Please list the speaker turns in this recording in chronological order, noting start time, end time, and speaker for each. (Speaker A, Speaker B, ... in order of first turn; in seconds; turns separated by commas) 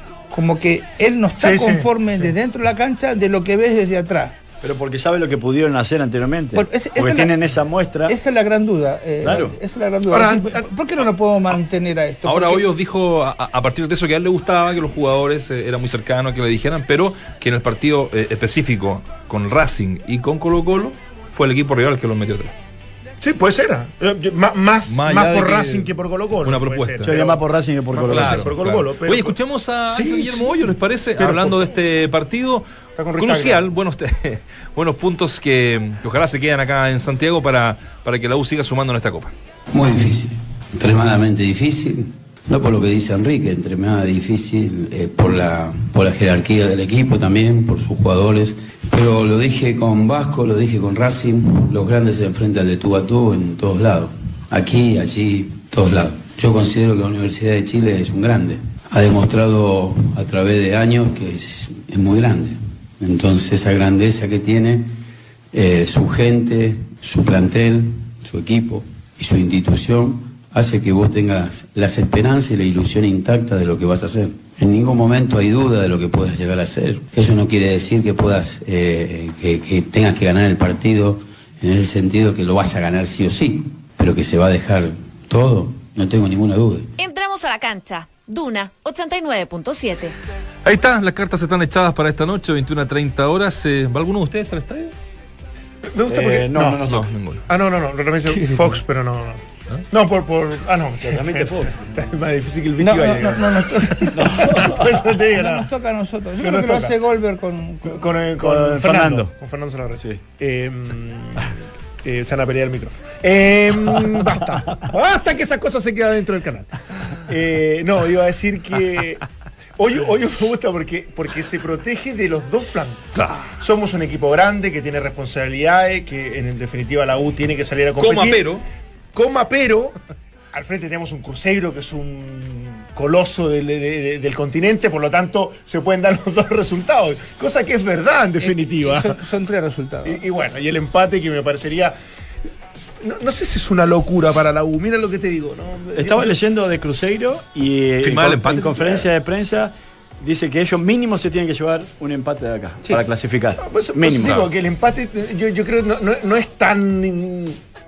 Speaker A: 0.3-4.3, Speaker B: 1.4-1.9, Speaker C: 4.6-8.1, Speaker A: 6.5-7.3, Speaker A: 8.1-12.7, Speaker C: 9.2-9.6, Speaker B: 10.1-10.7, Speaker D: 12.2-22.5, Speaker B: 23.2-29.4, Speaker D: 24.9-27.2, Speaker C: 27.0-28.5, Speaker D: 28.1-32.6, Speaker B: 29.9-31.6, Speaker B: 33.0-33.6, Speaker D: 33.2-39.3, Speaker E: 39.7-64.9, Speaker E: 65.5-86.9, Speaker F: 87.0-90.1, Speaker D: 90.6-94.9, Speaker B: 95.9-96.8, Speaker C: 96.1-97.1, Speaker D: 96.9-97.4, Speaker B: 97.5-105.7, Speaker C: 101.0-101.8, Speaker A: 102.8-108.1, Speaker C: 104.1-104.9, Speaker B: 106.4-106.9, Speaker B: 107.8-119.2, Speaker C: 108.4-109.3, Speaker B: 119.8-123.0, Speaker D: 123.1-123.6, Speaker B: 123.6-128.5, Speaker D: 128.0-128.7, Speaker B: 129.1-129.9, Speaker B: 130.5-139.2, Speaker A: 138.4-140.2, Speaker B: 140.0-141.9, Speaker B: 143.0-146.3, Speaker C: 145.9-154.5, Speaker D: 148.0-149.0, Speaker B: 153.6-157.6